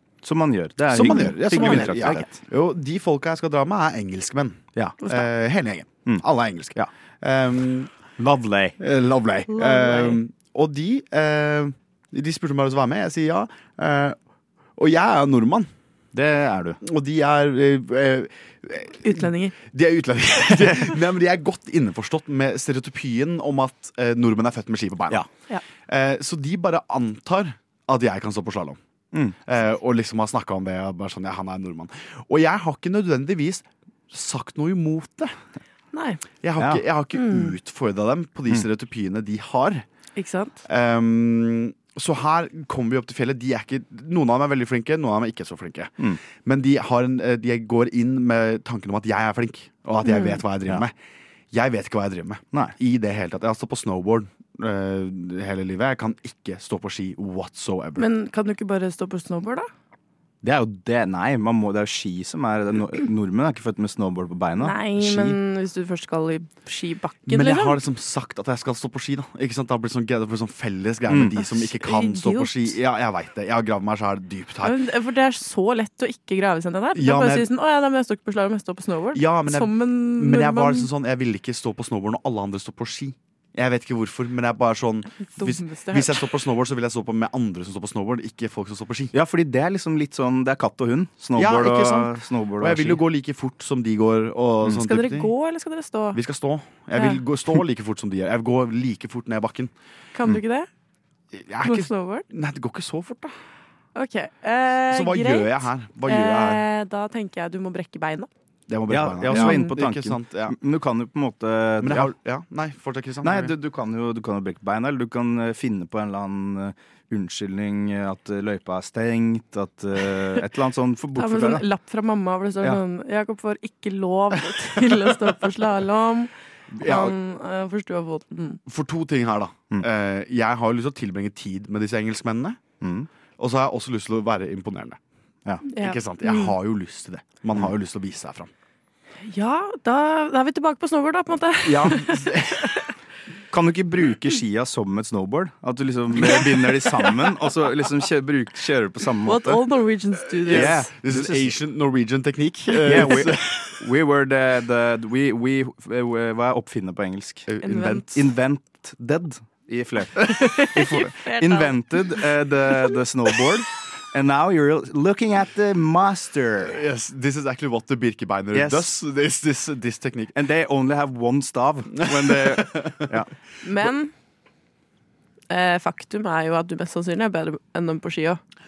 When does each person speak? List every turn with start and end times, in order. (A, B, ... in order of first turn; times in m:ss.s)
0:00.2-0:02.3 A
0:00.9-0:07.9 B
0:01.0-0:02.2 C
0:05.0-0:05.3 C
0:06.0-0:06.9 A
0:08.2-0:08.7 A
0:08.8-0:14.2 B
0:09.7-0:10.2 C
0:14.8-0:15.7 B
0:16.1-0:16.8 A
0:16.8-0:25.2 B
0:19.0-0:19.5 C
0:25.9-0:28.8 B
0:29.5-0:35.3 B
0:35.9-0:36.2 C
0:36.4-0:39.8 B
0:36.6-0:36.8 A
0:37.2-0:37.5 C
0:40.2-0:40.6 C
0:40.7-0:50.9 B
0:50.0-0:50.4 C
0:51.5-0:58.1 B
0:58.0-0:59.7 C
1:00.4-1:05.4 A
1:04.6-1:07.8 C
1:07.3-1:14.8 B
1:11.1-1:11.4 A
1:11.8-1:12.8 C
1:14.6-1:20.9 C
1:16.9-1:17.5 B
1:19.1-1:29.1 B
1:25.4-1:26.2 C
1:29.1-1:33.0 A
1:31.3-1:35.3 B
1:34.8-1:36.2 C
1:36.1-1:39.7 B
1:36.9-1:37.2 C
1:40.1-1:40.7 C
1:41.3-1:43.3 B
1:41.6-1:42.2 C
1:43.9-1:48.3 C
1:44.9-1:46.6 B
1:48.7-1:50.6 B
1:48.9-1:52.1 A
1:49.3-1:49.7 C
1:51.8-1:53.5 B
1:53.2-2:01.6 A
2:01.2-2:08.6 C
2:06.7-2:07.1 B
2:08.7-2:12.6 B
2:12.8-2:13.1 A
2:13.4-2:15.0 B
2:15.7-2:16.5 C
2:15.7-2:18.5 B
2:19.2-2:22.7 C
2:21.6-2:22.0 A
2:21.9-2:22.3 B
2:23.5-2:29.6 A
2:26.2-2:26.7 C
2:29.2-2:30.9 C
2:30.4-2:33.8 B
2:30.5-2:31.5 A
2:32.8-2:37.5 A
2:37.5-2:38.2 B
2:37.6-2:38.0 C
2:38.1-2:46.8 A
2:40.4-2:41.8 C
2:46.7-2:50.4 B
2:48.5-2:48.9 A
2:50.3-2:53.3 A
2:52.0-2:53.1 B
2:53.6-2:54.1 C
2:55.5-2:58.4 C